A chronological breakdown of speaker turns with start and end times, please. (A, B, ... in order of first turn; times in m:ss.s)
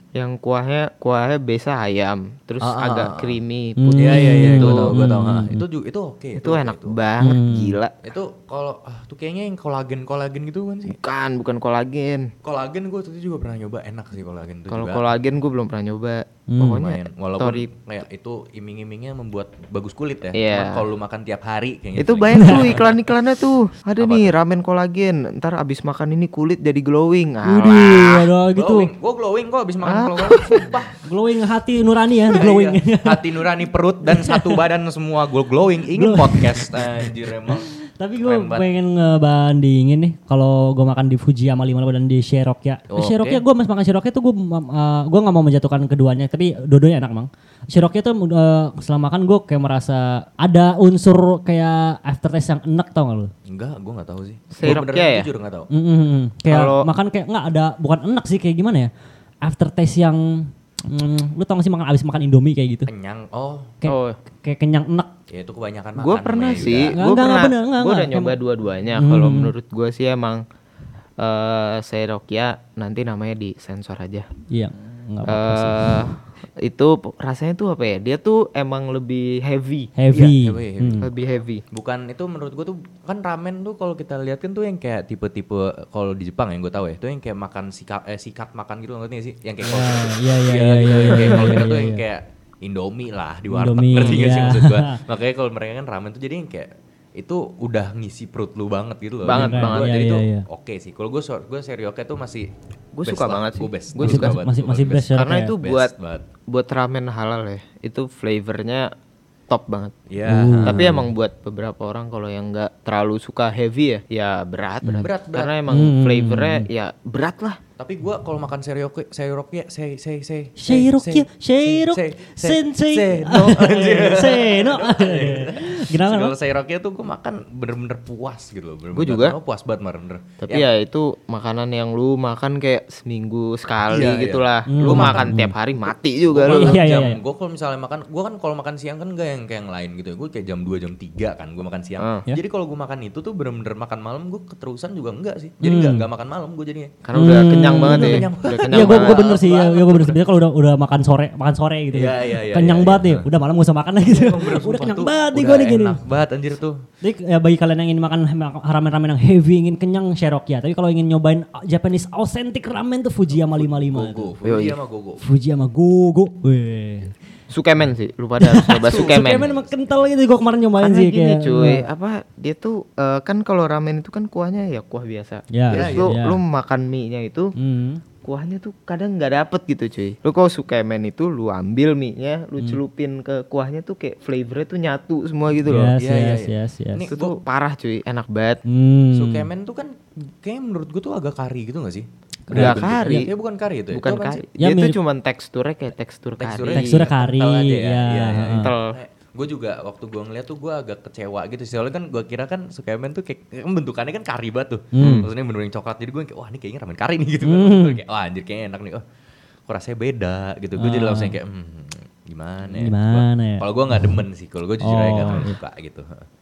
0:00.2-0:05.1 A
0:02.6-0:03.4 B
0:03.8-0:05.6 C
0:03.9-0:07.0 B
0:06.4-0:08.0 A
0:07.2-0:07.8 C
0:08.0-0:11.0 B
0:10.9-0:12.3 A
0:12.4-0:15.1 B
0:14.7-0:17.7 A
0:16.5-0:16.9 C
0:16.9-0:22.9 B
0:20.3-0:20.8 A
0:22.0-0:28.3 A
0:22.3-0:22.8 C
0:24.0-0:24.4 B
0:27.4-0:28.9 C
0:28.6-0:31.0 B
0:29.8-0:30.7 A
0:31.0-0:33.3 C
0:32.3-0:38.7 B
0:34.1-0:34.6 C
0:35.9-0:53.3 C
0:42.9-0:43.4 B
0:53.5-0:55.7 B
0:54.5-0:55.3 A
0:55.7-0:58.9 C
0:56.5-0:56.9 A
0:59.4-1:02.9 C
1:02.9-1:03.8 B
1:03.8-1:05.1 C
1:03.8-1:04.2 A
1:05.3-1:07.0 B
1:06.0-1:10.4 A
1:06.8-1:08.4 C
1:09.0-1:09.5 C
1:11.2-1:14.3 A
1:14.5-1:16.1 C
1:15.2-1:19.9 A
1:20.0-1:21.1 C
1:20.1-1:21.1 B
1:21.0-1:21.6 A
1:21.7-1:42.5 B
1:29.6-1:32.0 C
1:33.5-1:35.0 C
1:39.2-1:40.1 A
1:39.3-1:40.4 C
1:42.9-1:44.4 A
1:43.0-1:46.3 B
1:44.0-1:45.6 C
1:45.1-1:45.9 A
1:46.5-1:48.9 A
1:49.5-1:50.0 A
1:50.1-1:50.9 B
1:50.2-1:51.1 C
1:50.6-1:57.6 A
1:55.0-1:55.6 B
1:55.7-1:56.7 C
1:57.8-2:10.7 B
2:00.6-2:06.3 C
2:09.0-2:09.4 A
2:10.4-2:16.8 A
2:13.9-2:15.4 B
2:14.7-2:15.5 C
2:16.3-2:27.0 B
2:16.5-2:17.2 C
2:22.0-2:22.3 A
2:25.6-2:26.1 C
2:27.0-2:29.2 A
2:27.2-2:36.0 C
2:27.7-2:30.2 B
2:31.9-2:33.3 B
2:34.0-2:36.8 B
2:37.0-2:44.3 C
2:43.3-2:45.2 B
2:44.4-2:44.8 A
2:45.2-2:47.1 C
2:47.5-2:49.5 A
2:48.4-2:51.8 C
2:48.8-2:50.0 B
2:50.8-2:57.5 A
2:55.5-2:56.4 C
2:55.7-2:56.2 B
2:57.6-2:58.0 C
2:58.2-3:05.9 A
3:05.6-3:07.1 C
3:06.0-3:07.4 B
3:07.1-3:08.6 A
3:08.7-3:09.5 C
3:09.1-3:14.4 B
3:12.5-3:13.3 C
3:12.5-3:13.3 A
3:13.9-3:17.1 A
3:14.6-3:15.0 C
3:16.4-3:29.0 B
3:16.7-3:18.7 C
3:18.6-3:19.0 A
3:24.9-3:25.3 C
3:25.0-3:25.3 A
3:27.4-3:28.0 C
3:29.7-3:36.3 B
3:30.8-3:31.4 C
3:32.8-3:34.2 C
3:34.8-3:35.6 C